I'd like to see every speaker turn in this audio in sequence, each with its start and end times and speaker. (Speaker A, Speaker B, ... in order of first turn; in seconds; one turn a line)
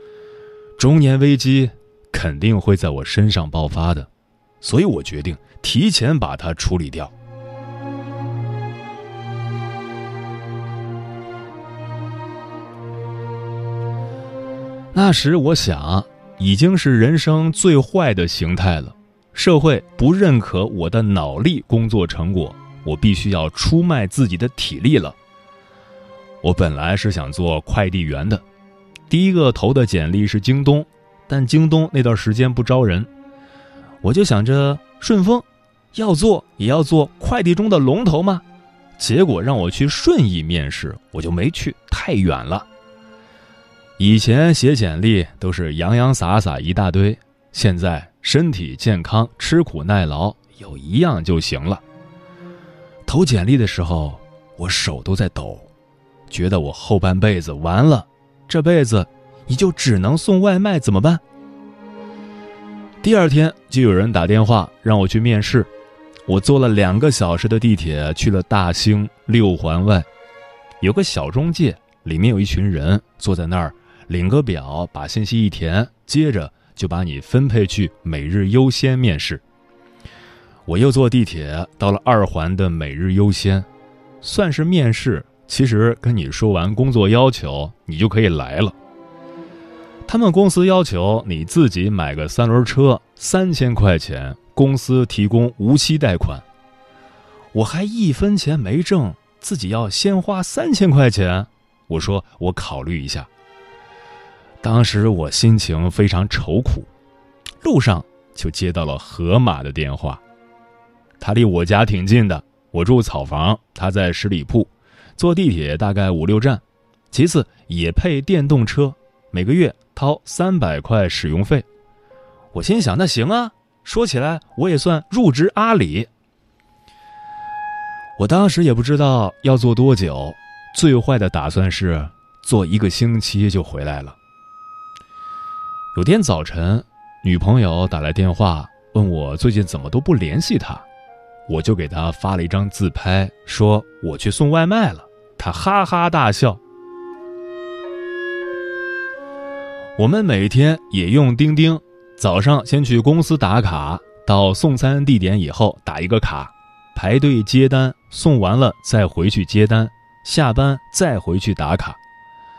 Speaker A: 0.8-4.1
Speaker A: 4.6-7.1
Speaker A: 14.9-25.2
Speaker A: 26.4-28.4
Speaker A: 29.1-33.1
Speaker A: 34.0-38.4
Speaker A: 39.0-42.7
Speaker A: 44.0-51.8
Speaker A: 53.1-55.7
Speaker A: 56.3-61.2
Speaker A: 63.0-65.7
Speaker A: 66.3-70.1
Speaker A: 70.8-79.4
Speaker A: 80.7-83.7
Speaker A: 84.2-88.7
Speaker A: 90.1-96.4
Speaker A: 97.5-103.3
Speaker A: 104.6-106.9
Speaker A: 107.6-110.2
Speaker A: 111.2-121.7
Speaker A: 122.5-126.1
Speaker A: 128.2-134.2
Speaker A: 135.9-140.9
Speaker A: 141.5-146.6
Speaker A: 150.0-162.0